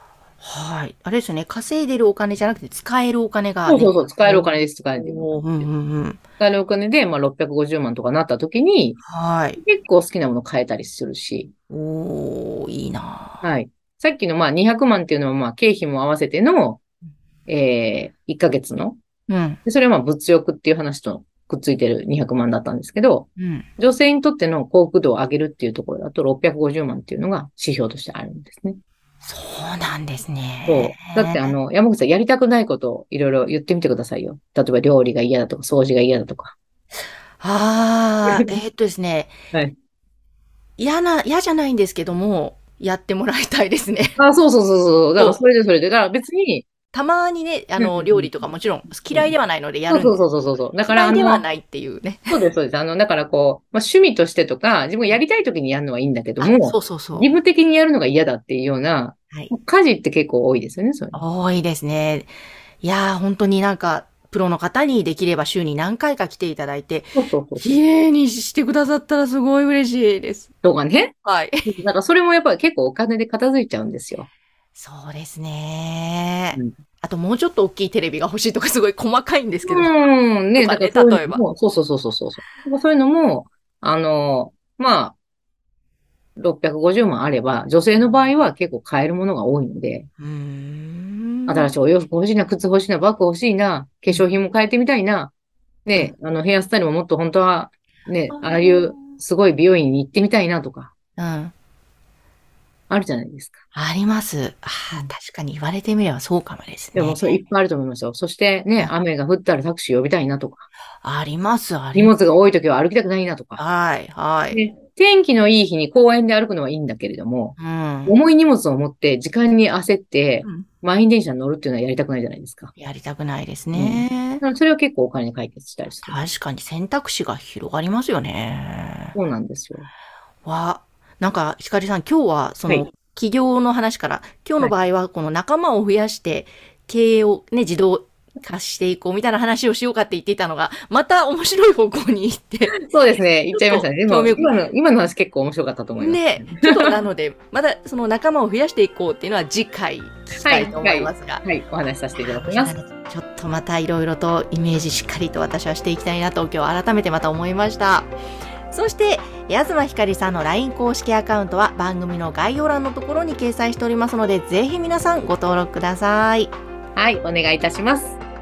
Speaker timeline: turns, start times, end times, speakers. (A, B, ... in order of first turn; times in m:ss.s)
0:00.4-0:04.5 A
0:03.7-0:05.7 B
0:05.0-0:06.2 A
0:06.4-0:09.0 B
0:09.0-0:09.6 A
0:09.6-0:11.5 B
0:11.7-0:13.4 A
0:13.4-0:16.8 B
0:17.5-0:19.0 B
0:19.3-0:19.6 A
0:19.6-0:28.8 B
0:23.4-0:23.7 A
0:29.2-0:31.5 A
0:30.6-0:36.6 B
0:37.4-0:39.3 A
0:40.8-0:44.2 A
0:44.2-0:46.7 B
0:46.9-0:50.2 A
0:47.8-0:48.3 B
0:49.9-0:51.4 B
0:50.9-0:52.4 A
0:52.3-1:01.2 B
0:56.4-0:57.3 A
1:01.1-1:02.3 A
1:02.8-1:10.5 A
1:07.2-1:07.8 B
1:10.6-1:11.1 B
1:11.2-1:11.7 A
1:11.6-1:14.3 B
1:14.8-1:19.9 A
1:19.6-1:25.2 B
1:20.6-1:21.4 A
1:26.4-1:30.1 B
1:30.2-1:31.7 A
1:31.5-1:35.3 B
1:35.9-1:40.9 B
1:38.3-1:39.2 A
1:41.2-1:41.5 A
1:42.9-1:43.6 B
1:43.8-1:47.4 A
1:47.0-1:50.7 B
1:51.0-1:52.1 A
1:51.9-1:53.6 B
1:53.6-1:54.6 A
1:54.5-1:57.6 B
1:57.6-1:58.2 A
1:58.1-2:02.7 B
2:02.8-2:04.4 A
2:03.7-2:06.2 B
2:06.0-2:09.2 A
2:09.2-2:09.9 B
2:10.4-2:22.7 A
2:22.8-2:27.0 B
2:23.5-2:24.5 A
2:26.0-2:31.5 A
2:30.4-2:32.8 B
2:32.2-2:38.1 A
2:38.7-2:46.5 A
2:47.0-2:48.2 B